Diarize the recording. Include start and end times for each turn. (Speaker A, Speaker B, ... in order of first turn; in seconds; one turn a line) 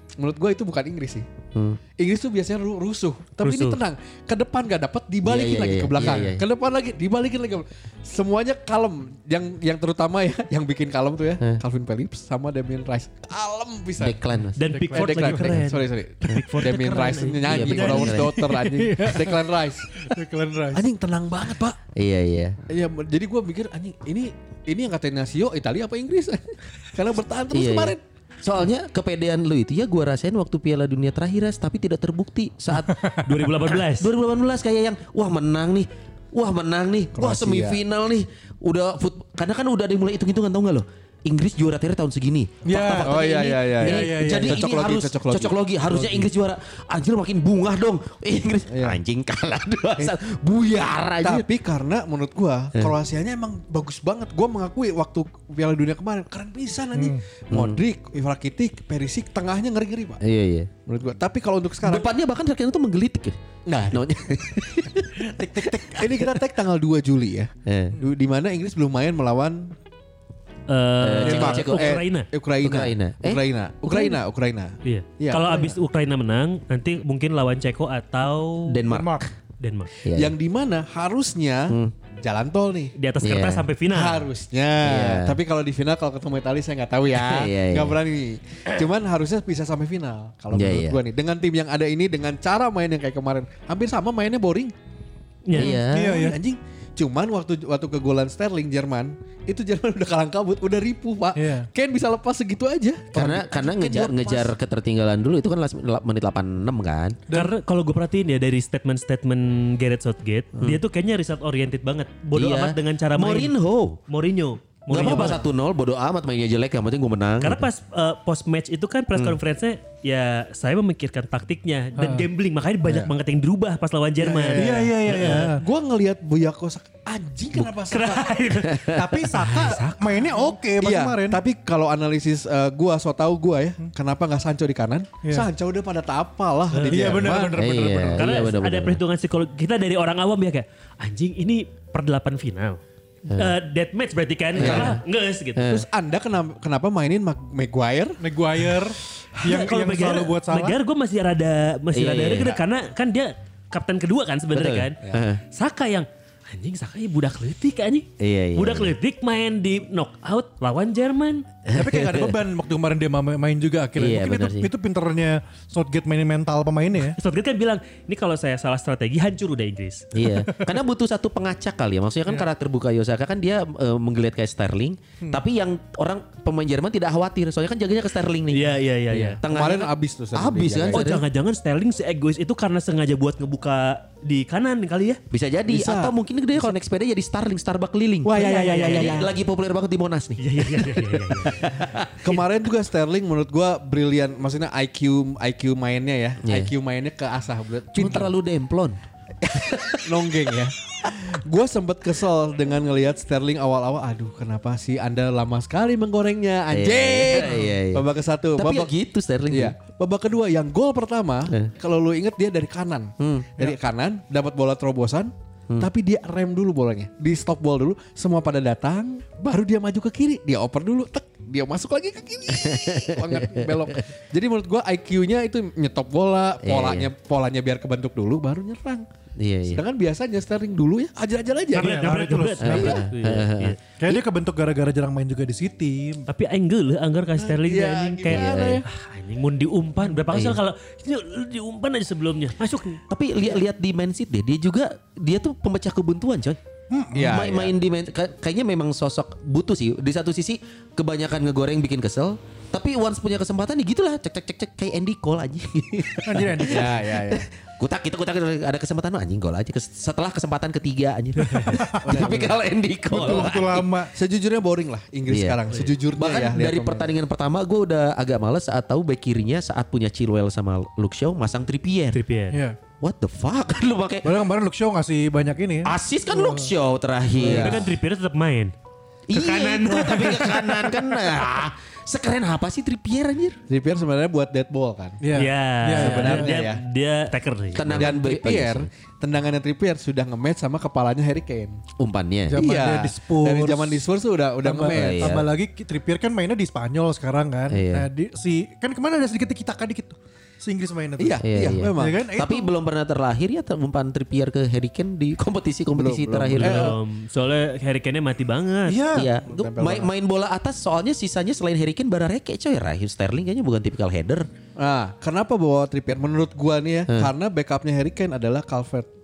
Speaker A: 0.2-1.3
Speaker B: 1.5-1.8
Speaker A: 2.0-14.2
Speaker C: 3.4-3.8
Speaker B: 5.2-6.4
Speaker B: 14.0-14.6
Speaker C: 14.6-18.3
Speaker D: 14.7-15.6
Speaker A: 14.9-20.1
Speaker B: 17.4-18.4
Speaker D: 17.8-20.9
Speaker A: 20.7-21.8
Speaker B: 21.9-22.6
Speaker A: 22.7-28.0
Speaker B: 27.5-51.5
Speaker C: 33.2-34.1
Speaker A: 37.1-37.8
Speaker D: 42.6-44.6
Speaker A: 43.0-46.3
Speaker A: 48.7-49.0
Speaker A: 51.2-60.2
Speaker D: 56.9-57.2
Speaker B: 57.5-57.8
Speaker B: 60.2-60.7
Speaker A: 60.9-62.1
Speaker B: 61.8-66.3
Speaker A: 63.6-64.0
Speaker D: 65.4-65.9
Speaker A: 65.6-69.7
Speaker B: 67.7-68.0
Speaker C: 70.7-72.3
Speaker B: 71.0-72.0
Speaker D: 71.2-71.7
Speaker A: 71.3-75.8
Speaker B: 72.6-74.1
Speaker C: 74.8-78.8
Speaker B: 78.7-79.3
Speaker D: 78.9-79.2
Speaker C: 79.6-79.9
Speaker B: 80.0-80.3
Speaker A: 80.1-82.9
Speaker B: 81.7-81.9
Speaker C: 83.0-84.2
Speaker B: 83.2-83.7
Speaker A: 83.9-94.7
Speaker B: 84.8-85.4
Speaker B: 87.1-88.0
Speaker B: 90.5-91.0
Speaker C: 95.5-95.8
Speaker B: 95.5-96.2
Speaker D: 95.6-96.4
Speaker A: 95.9-104.5
Speaker D: 101.3-101.7
Speaker B: 103.1-107.2
Speaker C: 107.3-113.5
Speaker B: 110.5-110.8
Speaker B: 112.3-114.0
Speaker C: 114.1-115.4
Speaker B: 114.9-117.7
Speaker A: 115.1-115.4
Speaker C: 117.4-125.4
Speaker D: 122.0-122.3
Speaker A: 124.2-128.4
Speaker D: 124.5-125.6
Speaker C: 127.8-130.4
Speaker B: 128.7-129.1
Speaker D: 128.8-131.4
Speaker A: 130.8-137.6
Speaker D: 135.2-135.5
Speaker C: 136.7-137.2
Speaker D: 136.8-138.3
Speaker B: 137.5-139.0
Speaker C: 138.2-142.8
Speaker B: 143.2-143.5
Speaker C: 143.3-145.7
Speaker B: 144.5-145.0
Speaker A: 144.6-144.9
Speaker B: 145.6-145.8
Speaker A: 145.6-148.8
Speaker D: 148.2-150.8
Speaker C: 149.4-155.0
Speaker B: 151.9-152.6
Speaker B: 154.5-155.4
Speaker C: 155.5-161.4
Speaker B: 158.2-158.9
Speaker B: 161.7-162.4
Speaker D: 161.7-167.2
Speaker B: 163.9-164.7
Speaker C: 167.0-170.1
Speaker B: 170.1-181.2
Speaker D: 170.2-170.7
Speaker C: 178.5-179.4
Speaker A: 179.1-181.1
Speaker C: 180.9-185.2
Speaker B: 185.3-192.4
Speaker A: 185.7-186.7
Speaker A: 188.2-189.3
Speaker C: 188.3-189.3
Speaker C: 190.4-191.8
Speaker A: 192.2-198.3
Speaker B: 196.4-196.7
Speaker B: 197.9-200.4
Speaker A: 200.0-208.9
Speaker B: 206.7-209.7
Speaker A: 209.5-229.1
Speaker B: 213.2-213.7
Speaker B: 222.5-224.0
Speaker B: 226.6-227.1
Speaker B: 229.4-229.8
Speaker A: 229.7-232.0
Speaker C: 231.7-233.8
Speaker D: 231.7-233.1
Speaker B: 232.6-234.2
Speaker D: 234.0-236.2
Speaker C: 236.3-243.0
Speaker A: 237.3-238.8
Speaker B: 238.2-238.8
Speaker B: 240.3-240.6
Speaker B: 243.1-246.6
Speaker D: 246.9-247.3
Speaker A: 247.1-247.7
Speaker B: 247.2-263.9
Speaker D: 256.2-257.0
Speaker A: 256.6-257.5
Speaker C: 261.4-261.8
Speaker D: 261.7-262.5
Speaker A: 262.0-262.6
Speaker D: 263.1-264.1
Speaker A: 263.2-263.4
Speaker A: 264.1-267.1
Speaker B: 265.3-272.2
Speaker C: 272.1-272.6
Speaker D: 272.5-272.8
Speaker B: 273.0-274.4
Speaker D: 274.2-276.7
Speaker B: 275.8-277.9
Speaker A: 277.3-277.9
Speaker C: 277.4-278.7
Speaker B: 279.3-283.6
Speaker C: 279.3-280.9
Speaker A: 283.7-285.2
Speaker D: 285.2-286.6
Speaker C: 285.3-288.1
Speaker A: 285.9-286.8
Speaker B: 287.7-288.9
Speaker A: 287.9-291.8
Speaker B: 292.0-292.6
Speaker D: 292.5-294.1
Speaker A: 292.6-295.3
Speaker D: 294.6-302.7
Speaker B: 294.9-295.5
Speaker B: 297.7-298.1
Speaker A: 301.2-302.3
Speaker B: 301.4-307.0
Speaker A: 305.9-307.0
Speaker C: 306.6-309.0
Speaker D: 308.9-309.3
Speaker B: 309.1-314.5
Speaker A: 309.4-310.1
Speaker A: 314.8-319.1